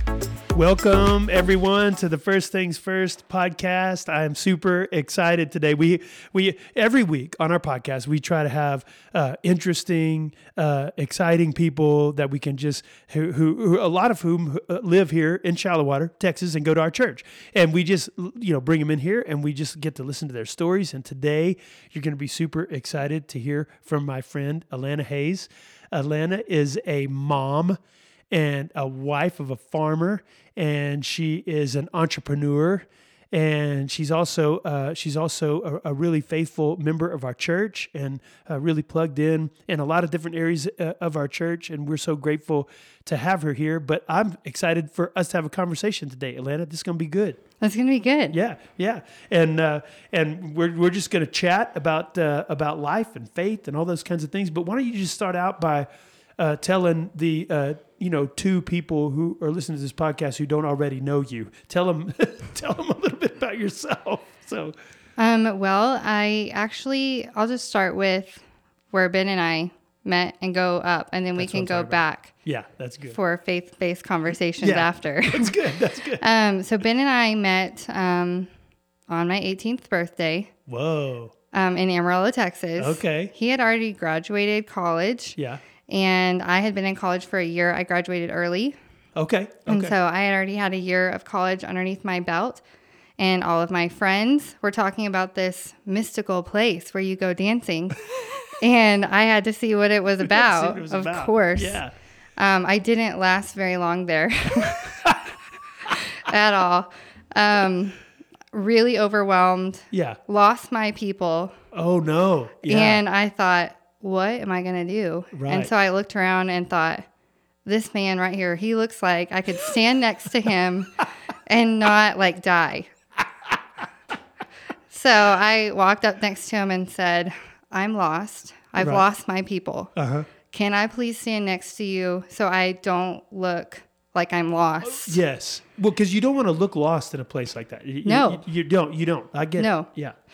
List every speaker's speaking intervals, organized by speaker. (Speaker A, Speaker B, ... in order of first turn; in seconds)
Speaker A: 0.5-27.8, 28.3-47.4, 48.3-55.9, 56.4-64.8, 71.4-73.2, 74.6-76.2, 80.7-81.3, 82.8-83.3, 89.2-90.0, 100.2-101.9, 109.9-110.2, 111.7-113.0, 115.3-115.7, 128.8-129.0, 130.0-130.3, 134.8-140.2
Speaker B: 47.6-48.4, 65.2-72.3, 73.1-78.5, 79.1-80.5, 81.5-85.4, 85.9-88.8, 89.7-92.6, 93.2-101.8, 102.4-105.2, 105.9-108.0, 108.5-111.5, 112.7-117.1, 117.7-122.9, 124.9-129.9, 130.5-135.2, 138.1-138.4, 139.6-139.9